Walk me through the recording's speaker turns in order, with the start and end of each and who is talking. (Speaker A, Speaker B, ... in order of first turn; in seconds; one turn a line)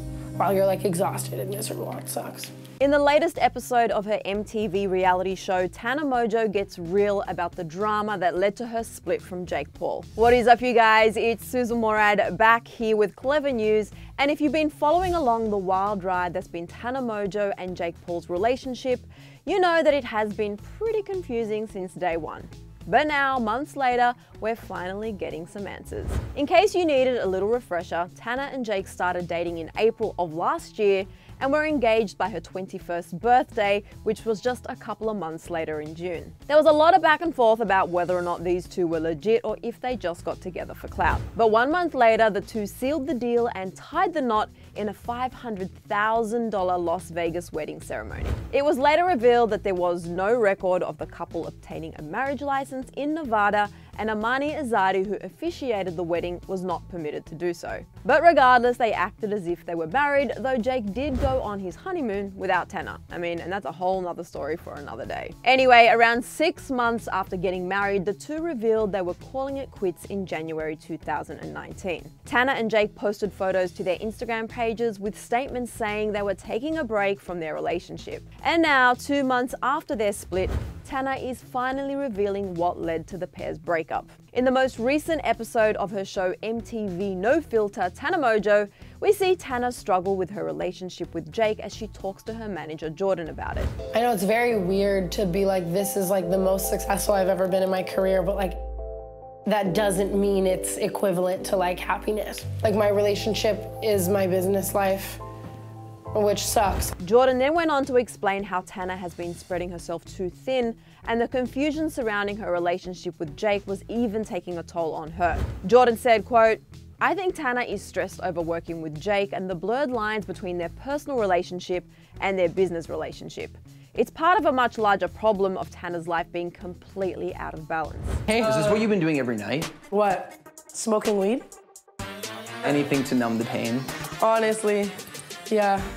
Speaker A: 0.4-2.5
Speaker B: 2.8-93.7
Speaker A: 93.9-98.5
Speaker A: 99.5-105.2
Speaker A: 106.1-106.9
Speaker B: 107.0-128.2
Speaker C: 128.3-129.7
Speaker A: 129.9-131.4
Speaker C: 132.6-133.9
Speaker A: 134.2-134.9
Speaker A: 135.5-135.9